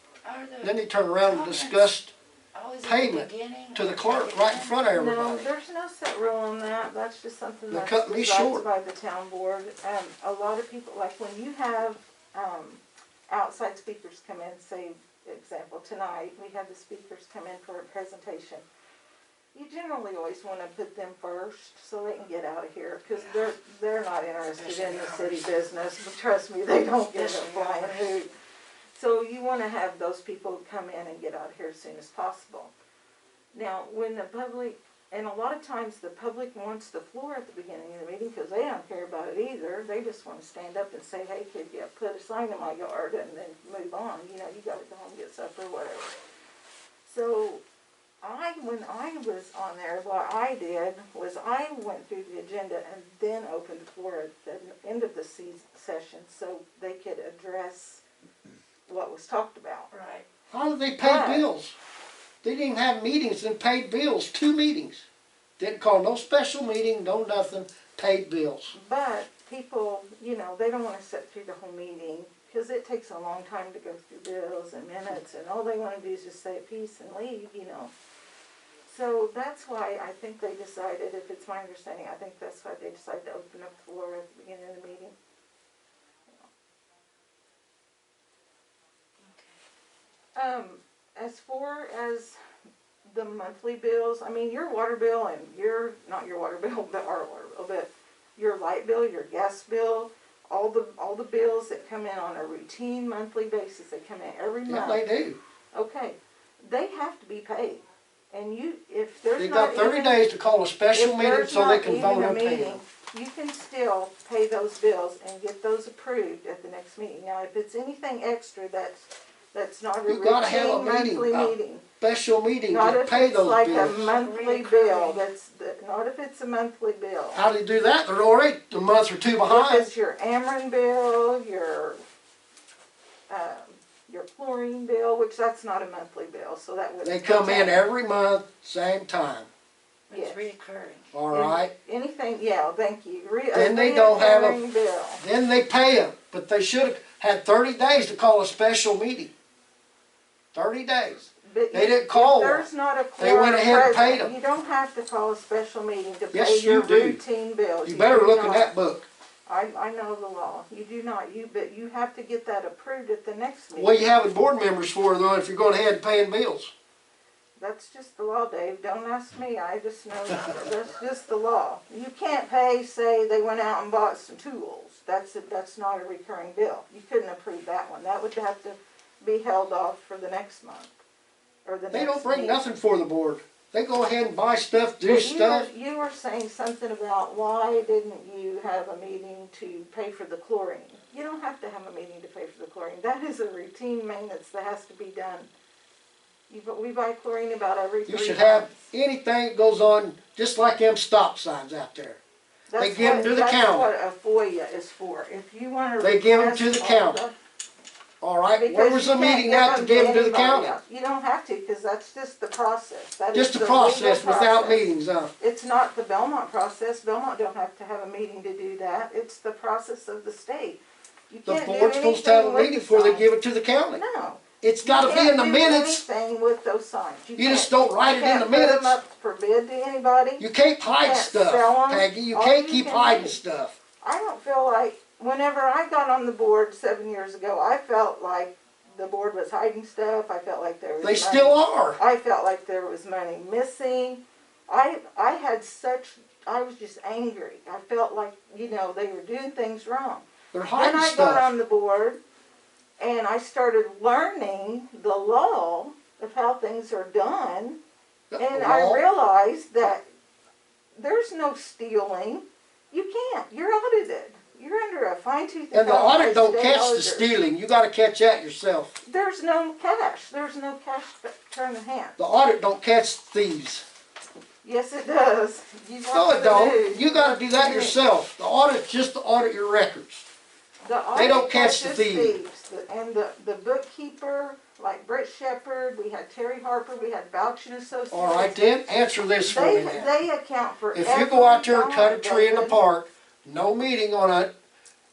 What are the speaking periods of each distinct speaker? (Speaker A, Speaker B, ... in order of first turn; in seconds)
Speaker A: 0.2-1.9, 2.5-4.8, 24.6-25.4, 27.1-28.1, 59.9-60.3, 89.3-89.5, 124.2-125.2, 140.1-141.1
Speaker B: 0.6-2.1, 2.8-5.5, 7.7-8.7, 60.5-61.8, 62.4-65.0, 65.6-68.7, 104.7-105.4, 109.4-112.8, 120.1-124.2, 127.3-129.9, 137.0-139.5, 141.1-141.7, 143.5-144.6, 145.2-149.3, 150.5-152.7, 153.2-154.3, 156.3-157.2, 157.8-159.1, 163.8-166.7, 181.9-185.7, 198.1-202.2, 202.8-203.9, 206.0-207.2, 208.2-210.8, 213.3-215.3, 221.4-224.0, 224.6-226.0, 227.4-229.0, 230.4-233.8, 241.0-242.0, 250.5-251.5, 258.3-259.0, 265.7-268.9, 272.2-273.8, 276.1-280.3, 281.1-282.4, 288.1-290.1, 290.9-294.5
Speaker C: 4.9-18.6, 19.5-28.3, 28.9-32.7, 33.5-46.1, 47.0-47.6, 48.2-58.0, 58.9-59.9, 61.0-61.5, 68.7-77.9, 78.9-85.1, 90.3-92.4, 93.1-105.0, 105.7-110.2, 110.9-121.8, 122.7-127.4, 129.4-132.0, 133.3-137.8, 140.1-140.4, 141.3-145.2, 151.4-158.7, 159.5-164.1, 167.6-180.9, 181.7-182.6, 185.0-195.5, 196.5-198.9, 202.7-207.3, 208.5-223.3, 223.9-230.5, 231.0-233.4, 234.0-252.2, 253.0-257.8, 258.4-260.0, 260.9-267.3, 269.0-272.2, 274.6-278.0, 280.8-288.6, 289.4-292.8